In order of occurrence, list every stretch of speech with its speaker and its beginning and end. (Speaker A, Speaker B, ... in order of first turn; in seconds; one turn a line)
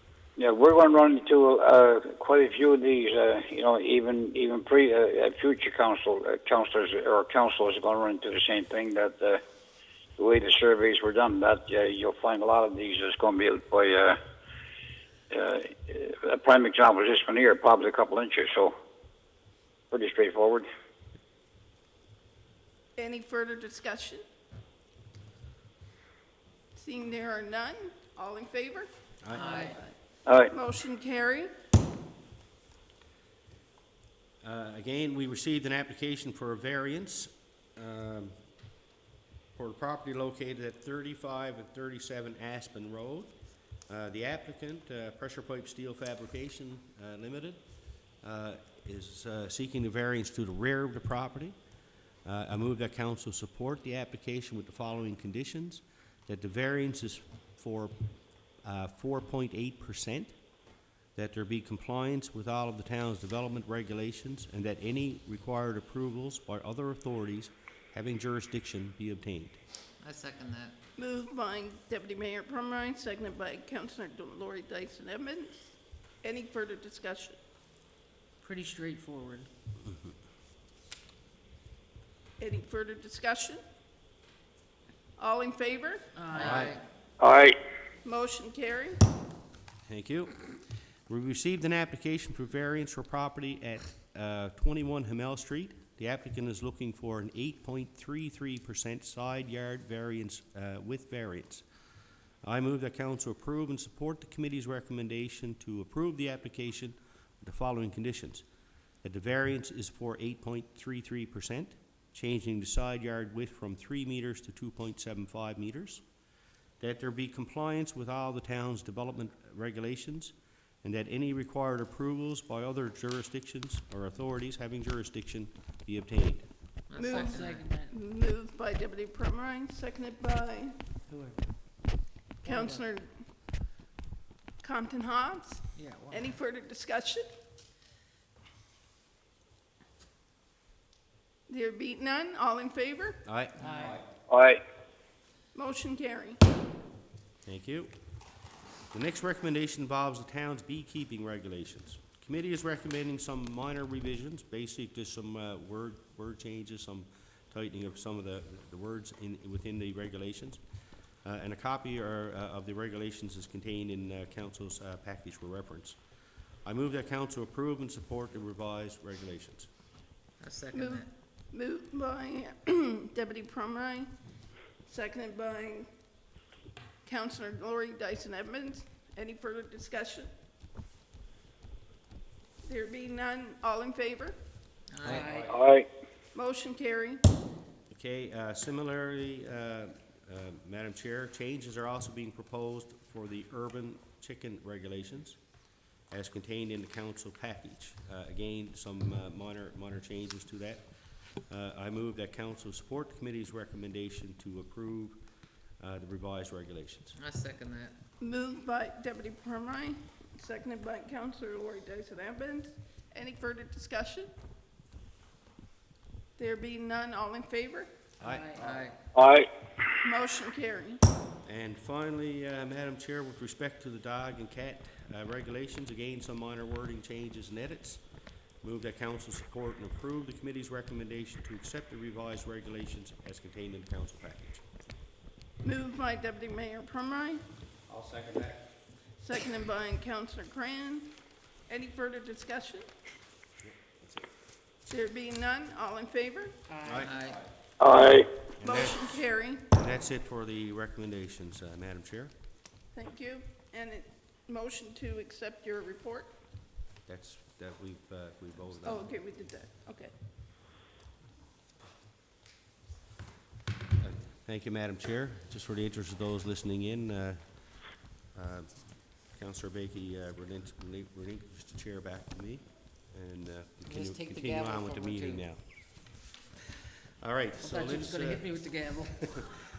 Speaker A: 0.4-9.4
Speaker A: 10.2-14.2
Speaker A: 15.3-18.7
Speaker A: 19.9-20.7
Speaker B: 23.0-24.2
Speaker B: 26.8-29.9
Speaker C: 29.2-29.5
Speaker D: 29.3-29.8
Speaker A: 30.3-30.5
Speaker B: 30.5-31.5
Speaker C: 34.4-38.3
Speaker C: 39.5-43.3
Speaker C: 43.9-47.6
Speaker C: 48.2-51.5
Speaker C: 52.2-58.0
Speaker C: 58.6-60.4
Speaker C: 61.2-69.6
Speaker D: 70.0-70.8
Speaker B: 71.0-75.7
Speaker B: 76.2-77.4
Speaker D: 78.4-79.5
Speaker B: 82.4-83.6
Speaker B: 85.2-86.6
Speaker D: 86.2-86.8
Speaker C: 86.4-86.8
Speaker A: 87.2-87.6
Speaker B: 88.0-89.0
Speaker C: 89.9-90.4
Speaker C: 91.1-101.6
Speaker C: 102.4-108.4
Speaker C: 109.0-116.0
Speaker C: 116.8-126.5
Speaker D: 126.9-128.0
Speaker B: 127.0-130.8
Speaker D: 131.1-131.4
Speaker B: 132.4-133.1
Speaker D: 132.4-132.8
Speaker B: 134.6-137.2
Speaker D: 135.8-136.3
Speaker B: 141.5-143.2
Speaker C: 143.2-143.9
Speaker D: 143.6-144.0
Speaker A: 144.3-144.6
Speaker B: 145.6-146.4
Speaker C: 147.5-147.9
Speaker C: 148.9-160.6
Speaker C: 161.2-166.0
Speaker C: 166.7-169.7
Speaker D: 170.4-171.1
Speaker B: 170.7-174.1
Speaker B: 174.9-175.9
Speaker B: 177.1-180.3
Speaker B: 182.7-184.4
Speaker D: 184.9-185.5
Speaker C: 185.0-185.5
Speaker A: 185.5-185.9
Speaker B: 186.3-187.2
Speaker C: 187.9-195.4
Speaker C: 196.1-200.9
Speaker C: 201.5-205.2
Speaker C: 205.8-207.2
Speaker D: 207.2-207.9
Speaker B: 208.2-214.3
Speaker B: 216.4-217.9
Speaker C: 218.2-218.8
Speaker D: 218.2-219.0
Speaker A: 219.1-219.5
Speaker B: 220.0-221.0
Speaker C: 221.4-228.0
Speaker C: 228.6-234.6
Speaker B: 235.6-237.4
Speaker C: 237.9-238.6
Speaker B: 239.2-241.1
Speaker B: 241.7-242.8
Speaker C: 243.6-244.3
Speaker B: 244.9-246.6
Speaker D: 246.7-247.4
Speaker C: 246.8-247.4
Speaker A: 247.8-248.3
Speaker C: 248.1-252.3
Speaker B: 248.6-249.7
Speaker B: 252.9-256.3
Speaker C: 257.1-259.1
Speaker B: 258.8-260.1
Speaker C: 264.0-267.4
Speaker C: 268.3-268.7
Speaker C: 269.3-275.6
Speaker D: 273.9-275.4
Speaker C: 277.2-278.5
Speaker D: 277.6-279.4
Speaker C: 279.1-279.5